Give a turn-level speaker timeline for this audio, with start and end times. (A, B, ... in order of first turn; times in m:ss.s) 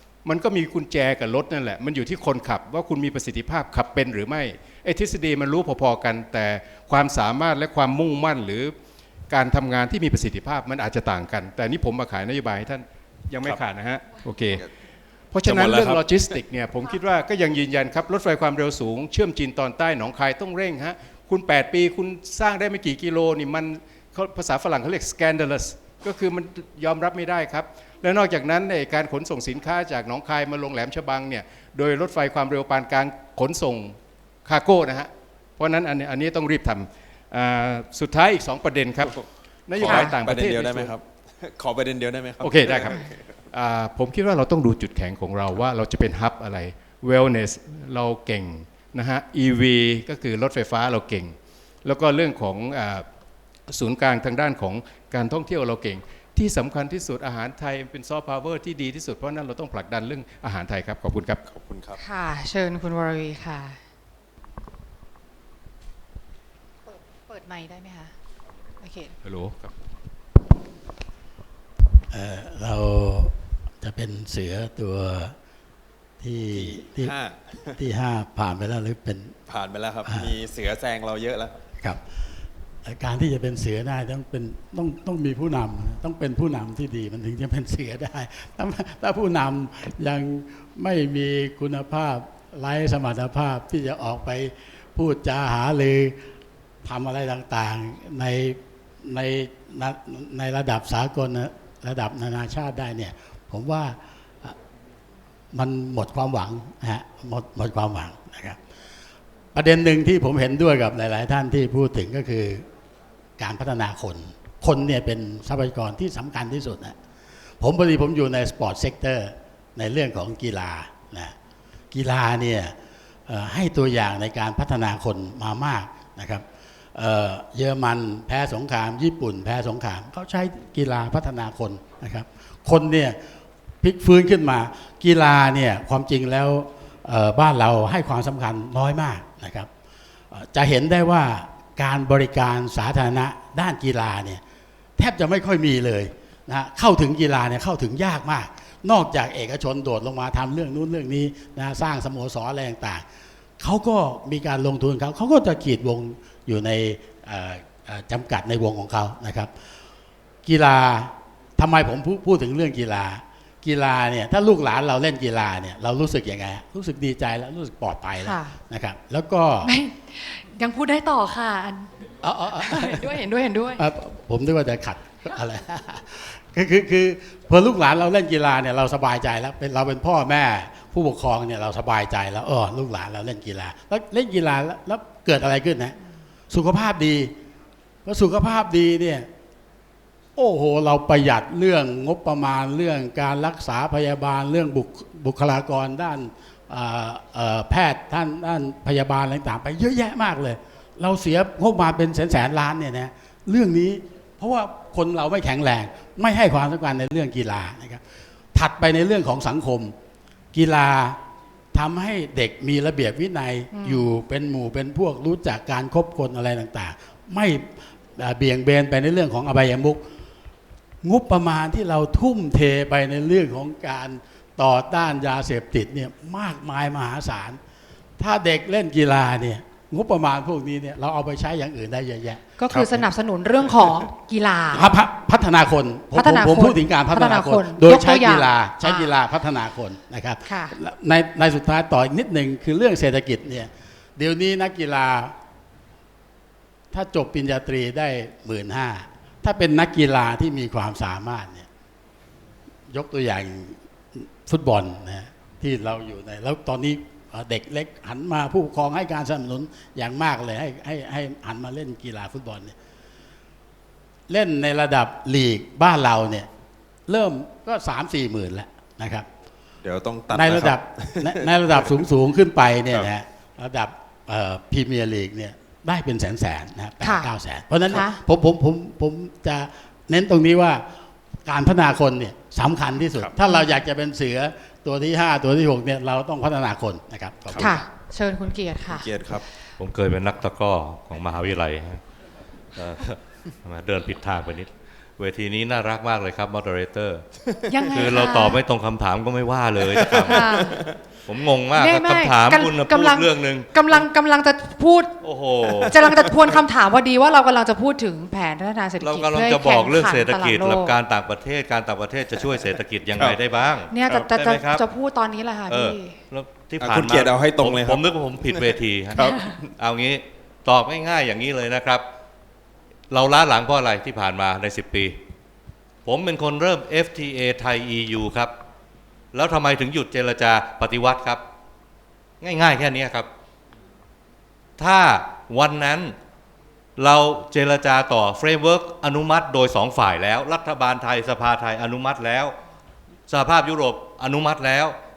0:00.2-0:08.7 A
0:09.3-0:14.6 A
0:15.3-0:40.9 A
0:15.4-0:16.3 B
0:39.7-0:43.2 B
0:39.8-0:40.2 C
0:42.4-0:53.0 A
0:53.7-1:01.4 A
1:01.4-1:02.0 B
1:02.0-1:03.8 C
1:06.9-1:08.1 C
1:08.8-1:09.1 C
1:09.2-1:09.7 A
1:12.1-1:15.3 D
1:16.2-1:17.1 D
1:16.5-1:17.7 B
1:17.7-1:19.3 D
1:19.5-1:21.5 B
1:20.0-1:20.3 D
1:22.8-1:36.2 D
1:36.8-1:44.5 D
1:45.5-1:48.6 D
1:49.5-1:52.6 D
1:53.4-1:57.0 D
1:57.6-2:01.4 D
2:01.9-2:02.7 D
2:03.3-2:13.2 D
2:13.8-2:19.7 D
2:20.3-2:24.4 D
2:25.0-2:33.0 D
2:33.6-2:39.5 D
2:40.4-2:49.7 D
2:48.2-2:48.6 C
2:49.6-2:51.9 C
2:52.2-2:53.2 D
2:52.5-2:53.8 C
2:53.7-3:06.0 D
3:06.5-3:07.3 D
3:08.0-3:09.3 D
3:10.4-3:28.0 D
3:28.5-3:29.9 D
3:30.5-3:31.2 D
3:31.7-3:40.1 D
3:33.7-3:34.0 C
3:41.0-3:47.6 D
3:48.2-3:52.7 D
3:52.6-3:55.0 C
3:53.7-3:54.0 B
3:54.7-4:05.4 D
3:56.1-3:59.1 C
4:00.4-4:00.7 C
4:06.9-4:11.7 D
4:12.9-4:22.7 D
4:24.3-4:26.5 D
4:27.1-4:29.3 D
4:29.8-4:32.0 B
4:30.3-4:40.8 D
4:37.0-4:37.3 C
4:37.9-4:38.2 C
4:41.4-4:47.8 D
4:43.4-4:43.8 C
4:47.5-4:47.7 B
4:47.6-4:49.1 C
4:48.9-4:49.4 B
4:49.8-4:52.0 E
4:52.8-4:57.2 E
4:57.7-4:58.6 C
4:57.9-5:03.8 E
4:59.9-5:00.9 B
5:00.2-5:00.8 C
5:01.7-5:05.2 C
5:05.2-5:06.2 E
5:05.9-5:11.0 C
5:09.0-5:14.8 E
5:13.9-5:16.2 C
5:15.7-5:22.0 E
5:16.8-5:19.7 B
5:19.3-5:19.5 C
5:23.1-5:25.2 E
5:26.0-5:28.5 E
5:29.3-5:31.4 E
5:32.4-5:33.3 E
5:34.8-5:36.2 E
5:37.0-5:42.5 E
5:43.3-5:45.0 E